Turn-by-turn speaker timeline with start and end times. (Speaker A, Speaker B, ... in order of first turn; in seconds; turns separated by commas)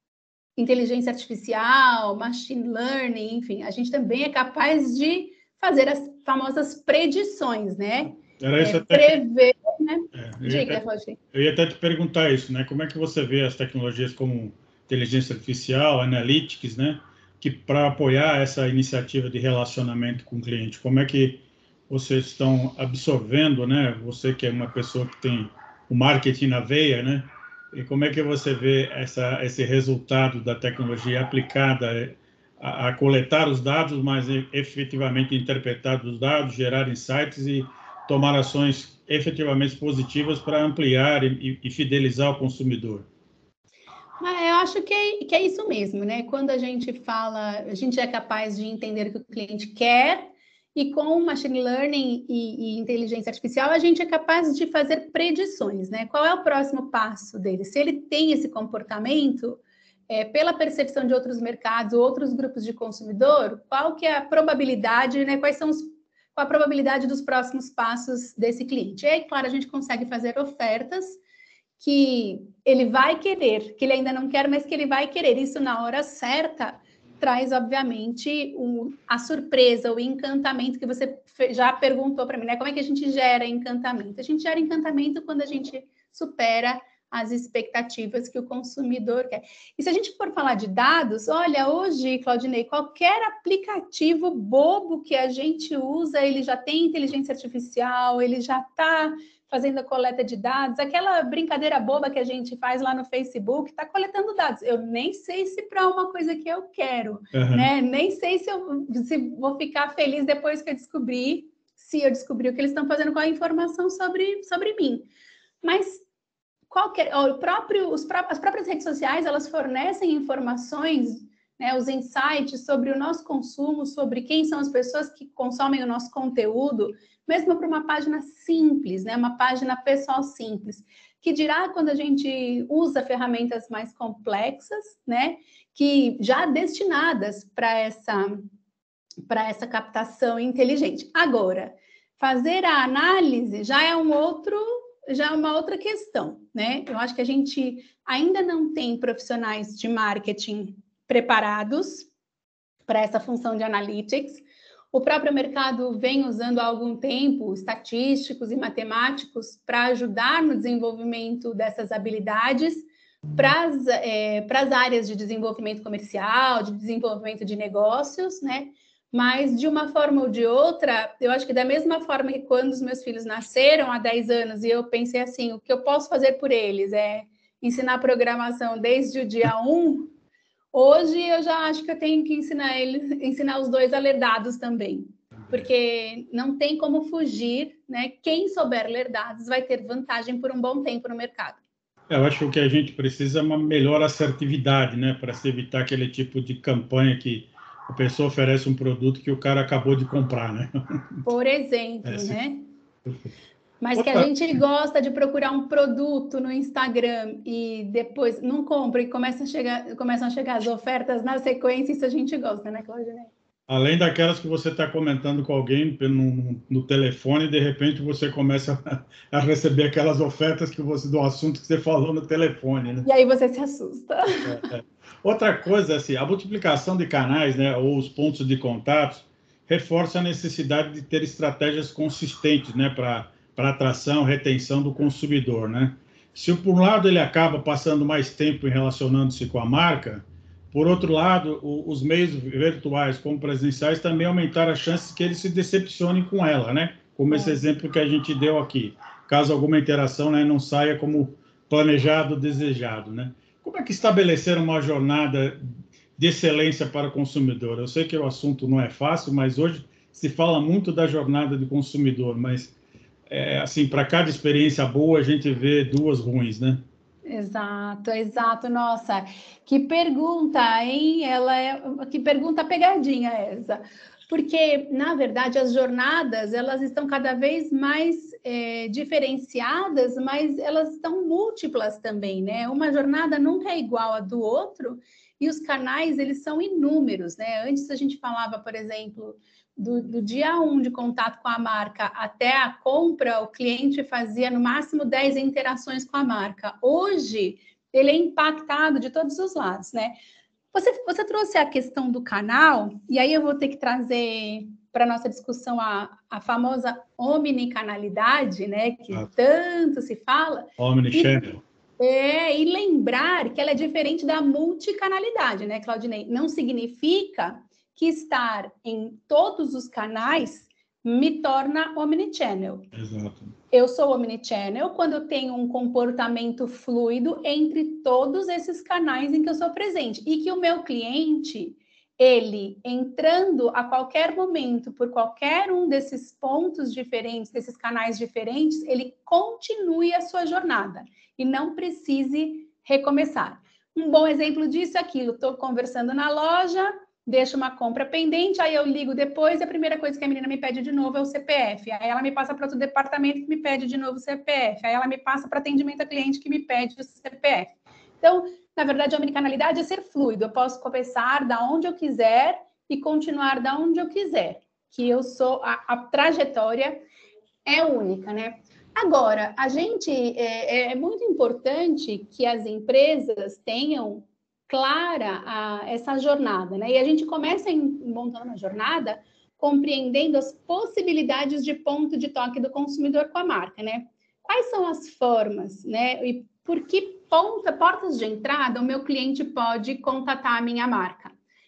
Speaker A: 0.6-11.2, Speaker B: 8.4-9.2, Speaker B: 10.1-10.8, Speaker B: 11.3-43.1, Speaker A: 44.2-71.2, Speaker A: 71.8-115.1, Speaker B: 107.3-107.7, Speaker A: 115.6-116.0, Speaker A: 116.7-138.5, Speaker A: 139.3-152.1, Speaker A: 152.9-180.1, Speaker A: 180.7-191.6, Speaker B: 192.1-201.2, Speaker A: 201.2-202.7, Speaker B: 202.1-202.4, Speaker A: 203.8-213.3, Speaker B: 204.0-204.3, Speaker B: 213.7-223.1, Speaker A: 223.0-224.7, Speaker B: 224.4-262.7, Speaker A: 247.3-247.6, Speaker B: 263.3-266.8, Speaker A: 267.3-300.2, Speaker A: 300.7-311.5, Speaker B: 310.8-311.6, Speaker A: 312.0-322.9, Speaker B: 322.9-323.5, Speaker A: 323.7-367.1, Speaker A: 367.6-391.3